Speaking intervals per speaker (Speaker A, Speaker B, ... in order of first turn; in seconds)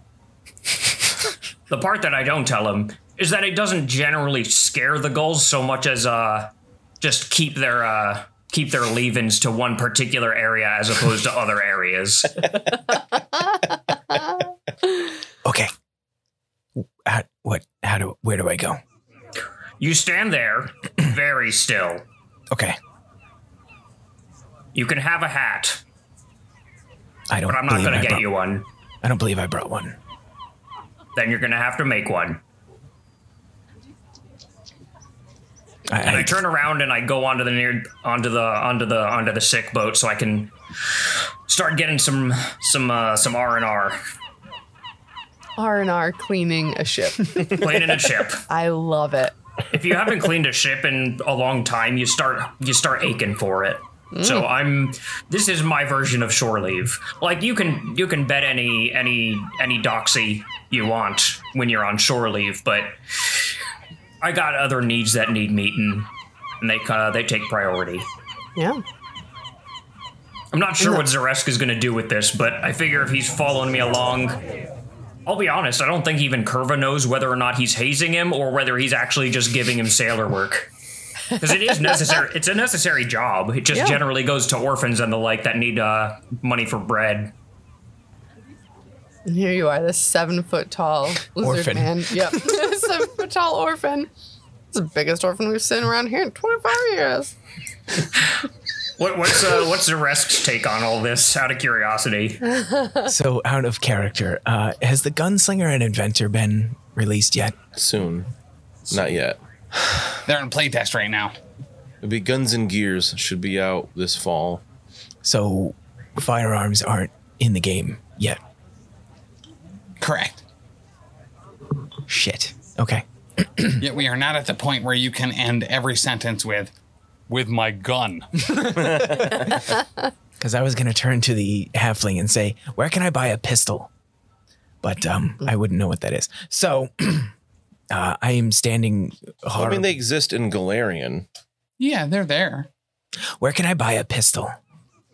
Speaker A: 1.7-12.5, 19.8-22.0, 24.7-25.8, 27.5-28.7, 31.1-32.4, 36.0-44.0, 47.4-48.4, 49.7-63.5, 64.2-66.1, 66.6-68.1, 70.5-74.4, 75.3-80.7, 81.4-87.3, 99.0-102.5
Speaker B: 15.4-15.7, 16.8-18.8, 22.5-22.8, 27.3-28.3, 29.0-30.0, 35.9-36.4, 91.4-92.6, 103.0-107.6, 115.2-118.4, 122.1-123.8, 128.4-129.8, 130.4-133.9, 134.8-137.3, 137.9-140.0, 143.4-144.6
Speaker C: 45.6-47.7, 48.5-49.4, 54.1-54.5, 68.6-68.8, 70.8-71.1, 83.7-84.0, 89.3-94.1, 94.7-97.3, 102.6-103.0
Speaker D: 107.8-108.3, 108.9-109.4, 112.0-114.6, 139.6-141.3
Speaker E: 110.2-111.3, 120.0-120.4, 123.8-126.7, 127.3-128.8, 141.8-142.7